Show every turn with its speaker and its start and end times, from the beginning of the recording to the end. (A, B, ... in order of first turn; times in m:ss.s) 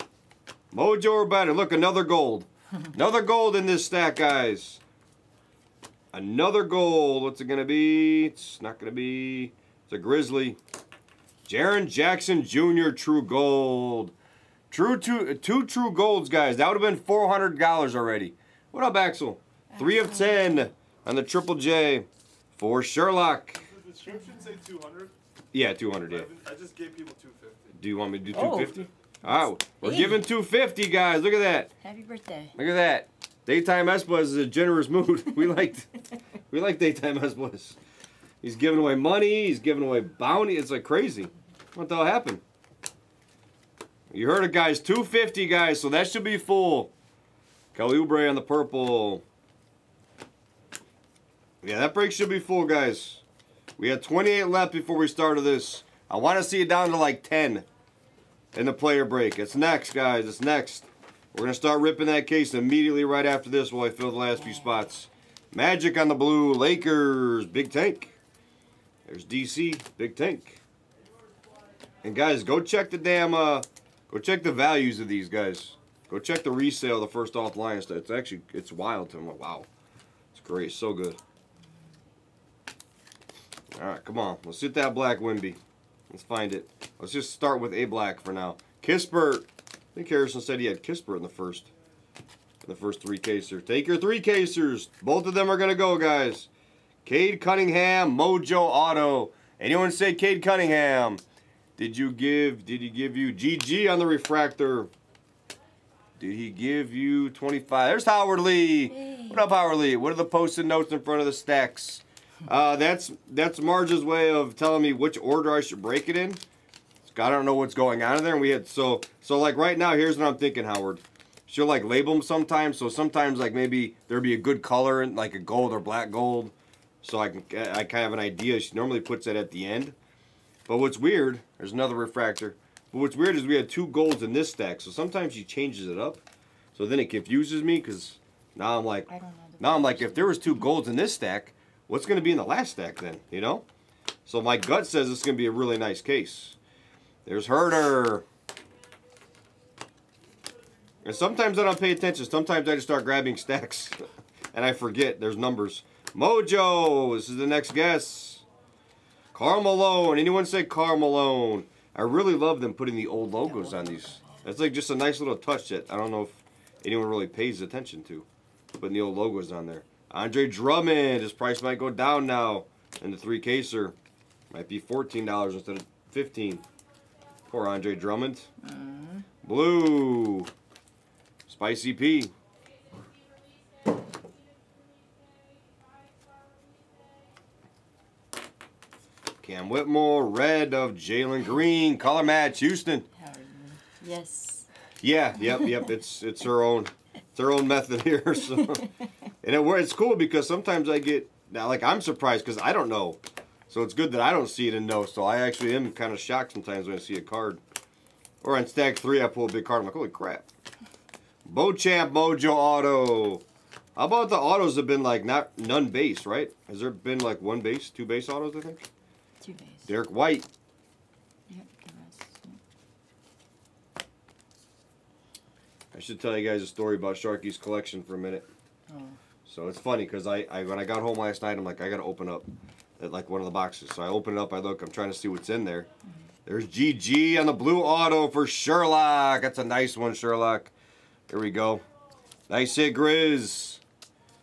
0:00.7-0:04.8 A
0:06.1-0:10.6 A
0:11.4-0:14.1 A
0:14.7-0:23.6 A
0:19.7-0:20.7 B
0:23.6-0:25.1 C
0:24.0-0:24.6 B
0:25.5-0:26.3 A
0:26.1-0:27.8 C
0:27.7-0:31.7 A
0:28.3-0:30.2 B
0:31.8-0:32.5 B
0:32.5-0:35.9 A
0:36.5-0:37.8 A
0:38.4-0:42.4 A
0:44.1-0:46.9 A
0:47.7-0:49.2 A
0:51.6-0:53.2 A
0:53.8-0:57.7 A
0:58.5-1:08.1 A
1:04.3-1:04.8 B
1:09.0-1:10.6 A
1:12.0-1:19.7 A
1:20.3-1:21.2 A
1:23.7-1:25.6 A
1:26.1-1:31.7 A
1:32.6-1:36.5 A
1:37.0-1:41.2 A
1:41.8-1:44.9 A
1:46.2-1:56.4 A
1:48.9-1:49.4 B
1:57.0-2:09.9 A
2:10.7-2:16.2 A
2:16.7-2:23.6 A
2:19.1-2:20.7 B
2:24.2-2:26.6 A
2:27.2-2:28.2 A
2:31.0-2:34.0 A
2:34.5-2:38.4 A
2:39.3-2:53.9 A
2:43.3-2:44.5 B
2:54.5-2:56.6 A
2:57.5-2:58.5 A
2:58.6-2:59.2 B
2:59.4-3:00.5 A
3:01.5-3:02.3 A
3:09.4-3:13.1 A
3:13.1-3:14.7 B
3:15.0-3:18.9 A
3:19.4-3:27.6 A
3:28.4-3:30.4 A
3:31.4-3:33.4 A
3:34.0-3:38.9 A
3:39.4-3:39.9 B
3:39.9-3:40.5 A
3:41.5-3:42.6 B
3:45.9-3:48.5 A
3:48.9-3:49.2 B
3:49.4-3:52.4 A
3:53.0-3:55.9 A
3:56.4-4:00.7 A
4:01.3-4:01.8 A
4:02.5-4:03.8 A